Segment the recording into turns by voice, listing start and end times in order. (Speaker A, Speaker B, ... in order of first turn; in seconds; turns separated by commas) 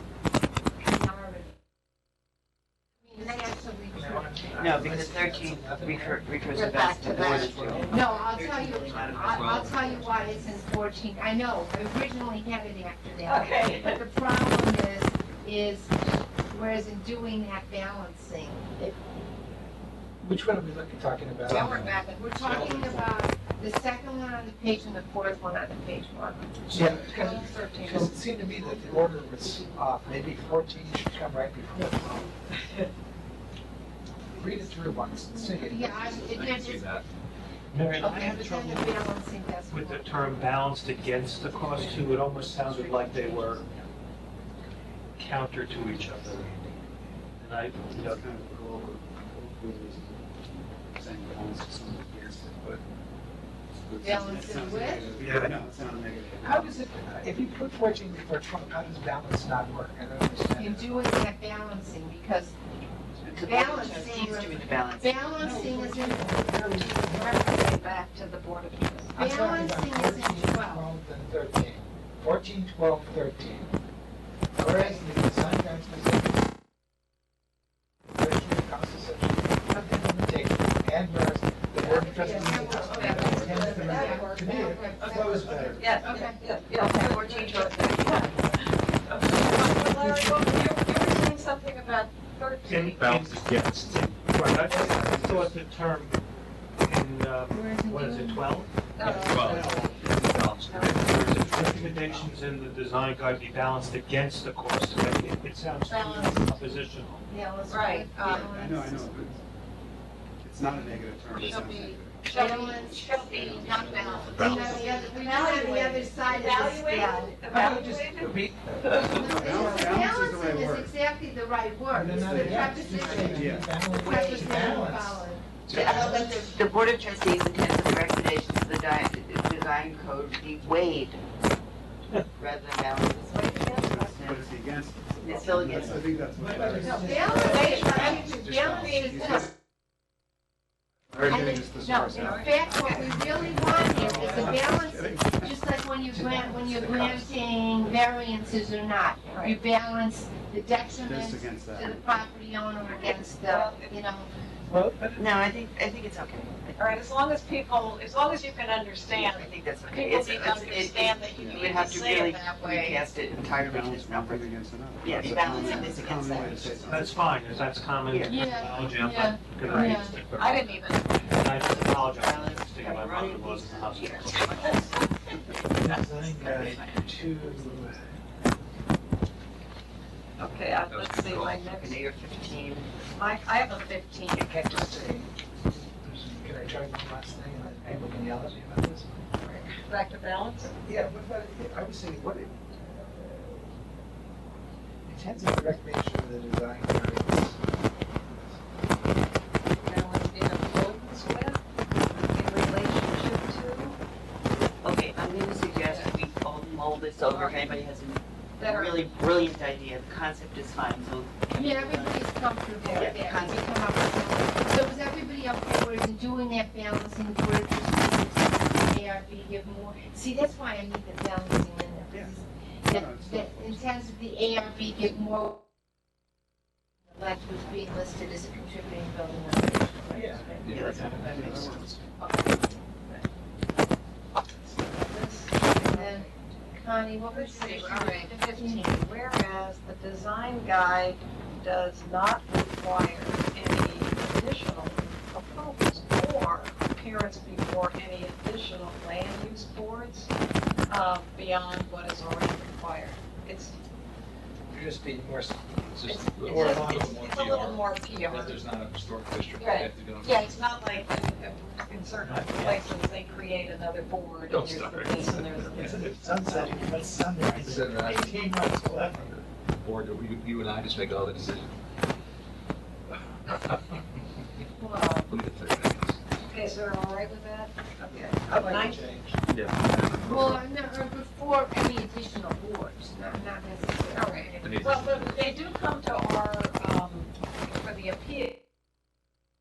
Speaker A: 0.8-1.5, Speaker A: 3.1-4.3, Speaker B: 3.9-6.3, Speaker C: 4.6-10.5, Speaker D: 6.5-7.8, Speaker E: 7.2-7.7, Speaker B: 7.2-7.9, Speaker A: 7.9-15.9, Speaker E: 9.3-9.8, Speaker D: 13.2-14.1, Speaker A: 16.5-19.0, Speaker B: 20.2-21.9, Speaker D: 21.5-22.8, Speaker E: 21.5-23.1, Speaker A: 22.1-26.5, Speaker B: 26.7-32.3, Speaker D: 26.8-29.6, Speaker D: 32.5-32.9, Speaker B: 34.3-36.3, Speaker A: 35.7-36.9, Speaker E: 35.9-37.1, Speaker F: 37.7-39.0, Speaker A: 38.0-40.5, Speaker F: 39.7-43.7, Speaker D: 41.5-42.0, Speaker D: 42.6-43.6, Speaker F: 45.2-46.6, Speaker F: 47.4-48.2, Speaker G: 47.9-52.8, Speaker G: 53.7-56.8, Speaker A: 54.0-55.1, Speaker F: 55.2-55.5, Speaker B: 56.4-61.1, Speaker A: 60.6-62.5, Speaker C: 63.2-65.5, Speaker A: 63.5-67.7, Speaker B: 65.4-67.5, Speaker D: 67.3-69.2, Speaker A: 69.2-70.9, Speaker B: 69.2-73.7, Speaker B: 74.6-76.4, Speaker D: 74.7-75.0, Speaker B: 78.1-86.0, Speaker A: 81.8-86.4, Speaker D: 83.0-93.3, Speaker G: 83.2-84.2, Speaker G: 85.4-85.9, Speaker C: 86.8-88.4, Speaker B: 89.6-90.5, Speaker F: 92.7-96.2, Speaker E: 92.9-93.9, Speaker G: 94.4-95.6, Speaker B: 94.7-95.2, Speaker F: 96.8-107.3, Speaker A: 97.5-98.5, Speaker D: 99.0-99.8, Speaker E: 99.1-99.7, Speaker G: 99.5-102.4, Speaker D: 100.7-101.1, Speaker D: 105.9-106.5, Speaker A: 107.3-109.2, Speaker D: 107.7-108.5, Speaker G: 108.2-109.4, Speaker G: 110.4-114.9, Speaker D: 111.4-119.3, Speaker A: 112.3-117.4, Speaker E: 114.3-114.7, Speaker B: 117.5-119.8, Speaker A: 119.1-125.5, Speaker G: 119.3-120.9, Speaker B: 121.9-125.3, Speaker G: 122.3-123.8, Speaker C: 123.8-124.8, Speaker E: 125.7-126.4, Speaker C: 125.7-131.2, Speaker C: 132.4-134.5, Speaker D: 133.2-134.2, Speaker G: 133.8-139.5, Speaker C: 135.2-136.1, Speaker D: 135.4-135.8, Speaker B: 135.6-138.2, Speaker A: 136.8-139.5, Speaker D: 137.4-138.2, Speaker G: 141.1-145.6, Speaker A: 141.2-154.3, Speaker D: 142.2-144.2, Speaker B: 143.3-144.6, Speaker B: 146.1-147.4, Speaker D: 149.3-149.6, Speaker G: 150.9-152.0, Speaker D: 153.4-153.9, Speaker B: 154.7-155.5, Speaker C: 155.2-156.8, Speaker D: 156.8-163.1, Speaker C: 159.1-164.5, Speaker G: 163.4-167.4, Speaker C: 165.0-167.1, Speaker A: 165.4-166.0, Speaker F: 166.9-174.6, Speaker C: 168.1-168.9, Speaker A: 168.3-170.2, Speaker D: 169.6-171.3, Speaker C: 169.7-170.0, Speaker C: 171.7-175.1, Speaker D: 174.6-174.8, Speaker B: 175.8-178.1, Speaker C: 175.8-177.9, Speaker D: 180.4-182.1, Speaker E: 180.9-181.7, Speaker C: 181.7-182.9, Speaker D: 183.2-184.6, Speaker B: 184.3-185.3, Speaker B: 185.9-189.2, Speaker D: 189.4-190.8, Speaker B: 190.9-193.7, Speaker B: 195.1-198.6, Speaker D: 199.8-204.0, Speaker C: 204.8-212.3, Speaker D: 205.7-206.2, Speaker D: 207.3-207.6, Speaker D: 208.6-209.1, Speaker A: 211.5-225.6, Speaker D: 212.8-213.1, Speaker C: 212.9-213.7, Speaker G: 222.9-223.8, Speaker A: 227.1-231.4, Speaker B: 230.1-231.6, Speaker E: 230.6-231.0, Speaker C: 230.7-231.2, Speaker G: 231.0-232.1, Speaker A: 232.2-233.2, Speaker D: 234.7-236.3, Speaker A: 235.8-239.0, Speaker D: 237.3-250.3, Speaker D: 250.9-253.8, Speaker B: 254.7-255.8, Speaker E: 255.9-260.5, Speaker D: 256.0-258.7, Speaker B: 256.4-257.7, Speaker D: 259.6-266.1, Speaker F: 262.2-262.9, Speaker E: 264.5-265.8, Speaker G: 265.7-266.8, Speaker B: 265.8-269.4, Speaker G: 267.5-267.8, Speaker E: 267.6-268.4, Speaker E: 269.8-271.7, Speaker E: 273.4-274.0, Speaker A: 274.8-275.3, Speaker E: 275.3-276.2, Speaker D: 276.4-279.1, Speaker B: 278.1-279.4, Speaker E: 279.5-280.6, Speaker A: 280.2-284.5, Speaker D: 284.1-288.6, Speaker E: 284.6-285.5